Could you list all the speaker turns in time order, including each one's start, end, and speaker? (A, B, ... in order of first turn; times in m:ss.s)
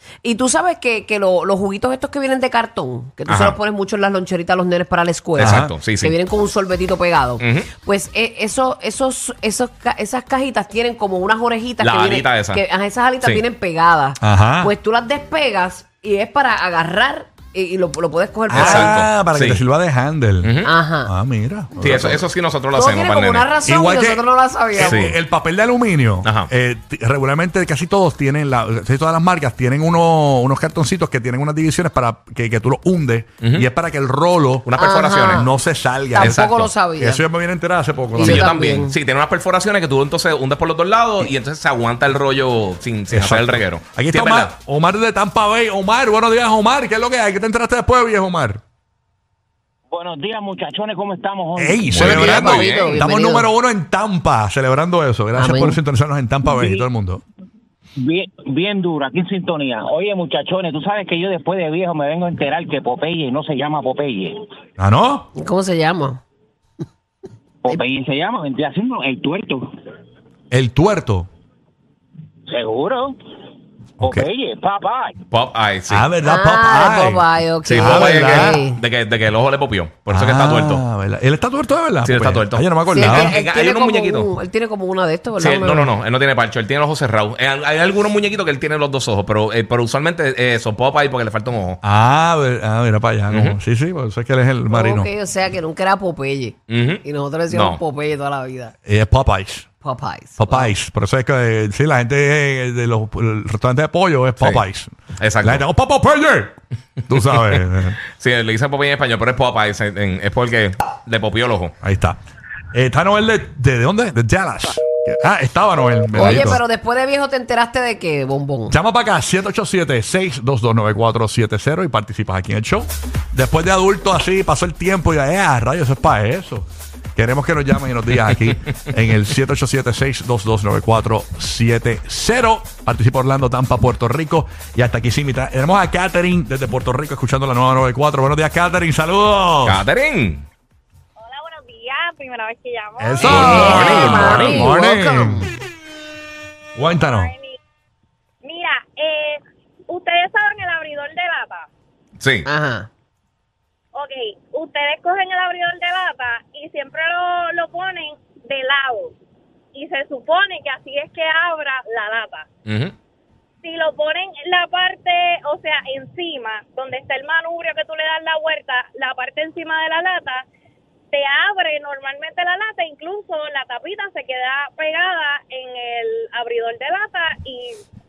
0:00.2-0:19.0 A
0:03.3-0:03.6 B
0:05.4-0:05.7 C
0:05.4-0:06.2 B
0:07.4-0:07.7 B
0:11.8-0:12.6 B
0:14.2-0:14.7 C
0:18.5-0:22.2 C
0:18.5-0:19.6 B
0:20.4-0:20.7 B
0:20.6-0:21.1 A
0:21.8-0:23.5 B
0:22.7-0:25.1 A
0:23.6-0:34.7 C
0:24.8-0:25.2 B
0:26.2-0:26.5 B
0:33.4-0:33.7 B
0:34.6-0:35.5 B
0:34.8-0:35.5 A
0:35.3-0:38.5 C
0:36.1-0:37.2 A
0:38.2-0:39.0 A
0:38.2-0:44.5 B
0:43.1-0:48.6 C
0:49.9-0:52.3 D
0:51.6-0:57.2 C
0:51.9-0:53.0 B
0:52.0-0:53.5 A
0:55.4-0:55.8 A
0:56.5-0:56.8 D
0:58.0-1:04.4 D
1:04.8-1:05.3 C
1:05.4-1:06.2 A
1:07.6-1:09.6 D
1:10.5-1:11.3 C
1:12.5-1:13.2 D
1:14.0-1:14.3 C
1:14.0-1:15.2 D
1:15.3-1:16.1 B
1:15.9-1:17.3 C
1:16.2-1:18.8 A
1:17.6-1:20.8 B
1:17.8-1:18.6 C
1:20.1-1:23.4 C
1:22.0-1:24.3 B
1:22.9-1:25.9 A
1:25.4-1:31.8 B
1:31.8-1:35.1 C
1:33.3-1:33.6 B
1:34.7-1:38.8 A
1:36.7-1:37.8 B
1:38.9-1:39.7 C
1:39.8-1:40.7 A
1:40.4-1:46.6 C
1:45.2-1:45.7 B
1:47.1-1:48.0 C
1:48.2-1:51.7 B
1:51.8-1:52.2 C
1:52.7-1:56.6 C
1:56.1-1:58.8 A
1:58.7-2:19.8 C
2:19.6-2:20.5 B
2:21.2-2:24.1 E
2:23.0-2:25.5 C
2:23.2-2:25.5 A
2:23.2-2:24.7 B
2:26.8-2:27.3 C
2:26.9-2:27.6 E
2:28.4-2:31.7 E
2:32.2-2:32.5 B
2:32.5-2:32.9 A
2:33.9-2:39.1 E
2:39.7-2:42.5 E
2:42.7-2:42.9 B
2:43.6-2:50.4 E
2:51.1-2:57.8 E